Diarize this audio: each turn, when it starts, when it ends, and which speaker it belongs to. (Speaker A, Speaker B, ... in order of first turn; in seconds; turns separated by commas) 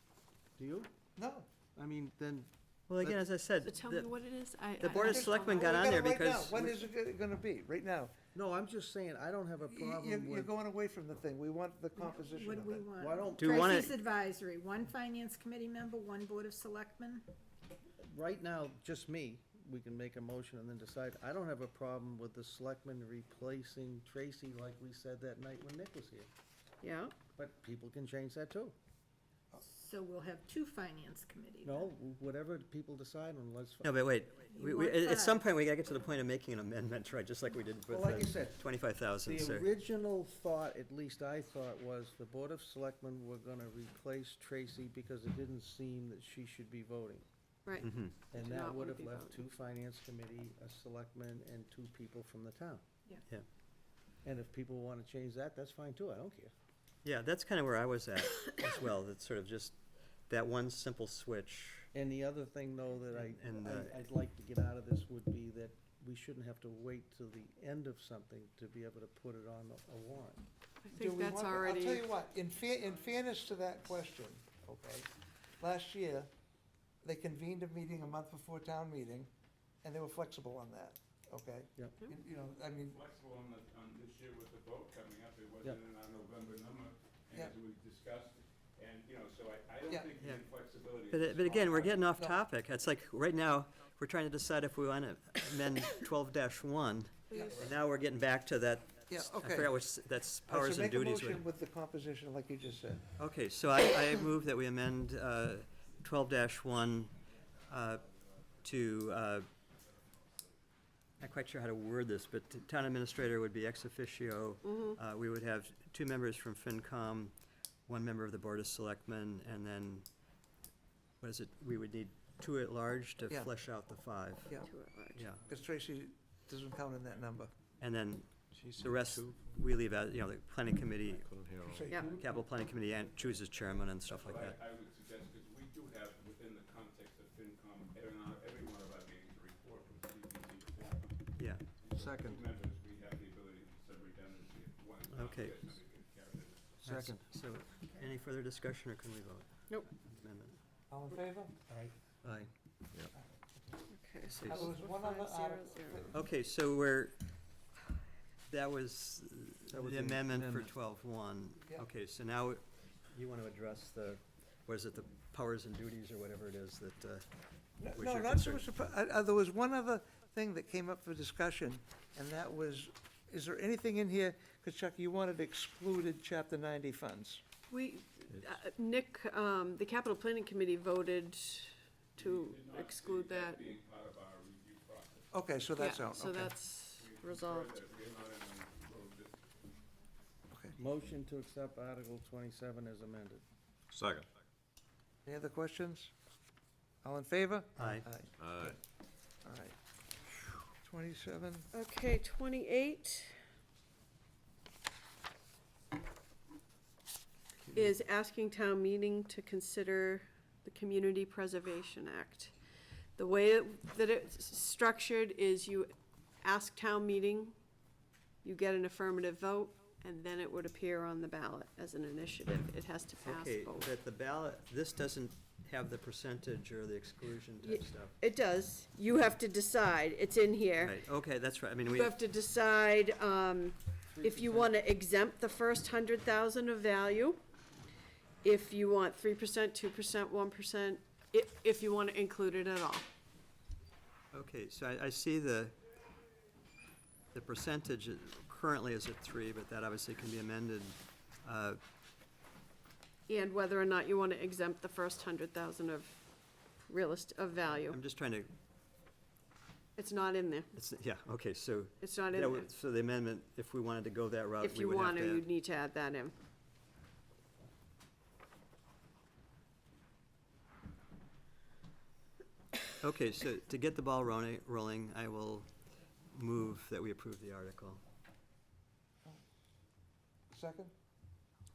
Speaker A: 0.6-0.9, Speaker B: 1.2-1.5, Speaker A: 1.7-3.2, Speaker C: 2.9-4.1, Speaker D: 3.6-6.0, Speaker C: 4.8-6.8, Speaker B: 4.9-8.1, Speaker A: 8.3-10.5, Speaker B: 9.7-12.9, Speaker E: 12.0-17.2, Speaker A: 12.9-13.8, Speaker C: 13.4-13.9, Speaker A: 18.0-26.3, Speaker D: 26.8-27.1, Speaker A: 27.4-28.8, Speaker E: 29.6-31.9, Speaker A: 31.6-34.0, Speaker C: 33.8-39.7, Speaker E: 34.5-35.4, Speaker A: 37.9-47.2, Speaker D: 47.7-49.4, Speaker C: 47.8-48.2, Speaker A: 48.2-52.8, Speaker A: 54.2-56.5, Speaker C: 57.0-59.8, Speaker C: 60.3-61.9, Speaker A: 61.9-70.5, Speaker C: 63.2-64.0, Speaker D: 70.8-72.1, Speaker B: 70.9-76.3, Speaker B: 77.0-79.3, Speaker B: 79.8-83.0, Speaker F: 82.8-92.0, Speaker C: 91.1-101.4, Speaker B: 92.1-92.4, Speaker D: 97.3-97.7, Speaker B: 97.3-97.7, Speaker B: 99.1-99.8, Speaker B: 100.5-103.1, Speaker C: 103.2-107.1, Speaker C: 107.7-108.0, Speaker C: 108.6-109.5, Speaker C: 111.2-117.3, Speaker D: 114.6-115.0, Speaker C: 117.9-120.1, Speaker C: 121.2-124.6, Speaker B: 123.3-123.5, Speaker D: 124.6-125.3, Speaker C: 125.1-125.4, Speaker B: 125.4-127.5, Speaker C: 127.8-131.2, Speaker G: 128.5-129.7, Speaker G: 131.1-132.0, Speaker B: 131.6-132.1, Speaker D: 131.9-132.2, Speaker C: 132.0-134.6, Speaker F: 134.0-146.8, Speaker C: 141.4-141.6, Speaker A: 141.9-142.4, Speaker C: 145.1-145.6, Speaker C: 146.8-150.6, Speaker A: 146.8-147.3, Speaker B: 150.9-151.6, Speaker A: 151.7-152.5, Speaker D: 153.9-156.1, Speaker C: 154.3-154.7, Speaker B: 154.4-156.2, Speaker C: 156.1-157.3, Speaker C: 158.5-167.3, Speaker B: 159.7-160.7, Speaker B: 167.8-177.4, Speaker C: 167.8-168.6, Speaker D: 177.7-183.8, Speaker F: 182.2-185.4, Speaker B: 185.3-186.6, Speaker D: 185.8-187.8, Speaker F: 187.0-189.6, Speaker B: 190.5-190.8, Speaker A: 190.8-193.4, Speaker G: 193.9-194.3, Speaker B: 195.2-196.1, Speaker B: 197.0-198.8, Speaker C: 197.8-198.1, Speaker G: 198.4-198.8, Speaker B: 199.4-199.8, Speaker B: 200.8-201.7, Speaker D: 201.7-203.4, Speaker D: 207.7-212.5, Speaker D: 213.2-215.9, Speaker D: 216.4-217.6, Speaker D: 218.4-223.9, Speaker C: 223.2-228.1, Speaker D: 227.6-231.0, Speaker C: 230.8-232.2, Speaker D: 231.8-237.4, Speaker A: 234.2-234.7, Speaker D: 238.4-243.1, Speaker C: 244.3-245.8, Speaker C: 247.3-251.8, Speaker D: 253.3-256.3, Speaker D: 256.8-258.0, Speaker C: 257.8-258.5, Speaker D: 260.0-260.7, Speaker C: 260.7-265.5, Speaker D: 262.0-262.7, Speaker D: 264.6-266.3, Speaker C: 273.0-275.7, Speaker C: 276.3-278.0, Speaker B: 280.5-280.9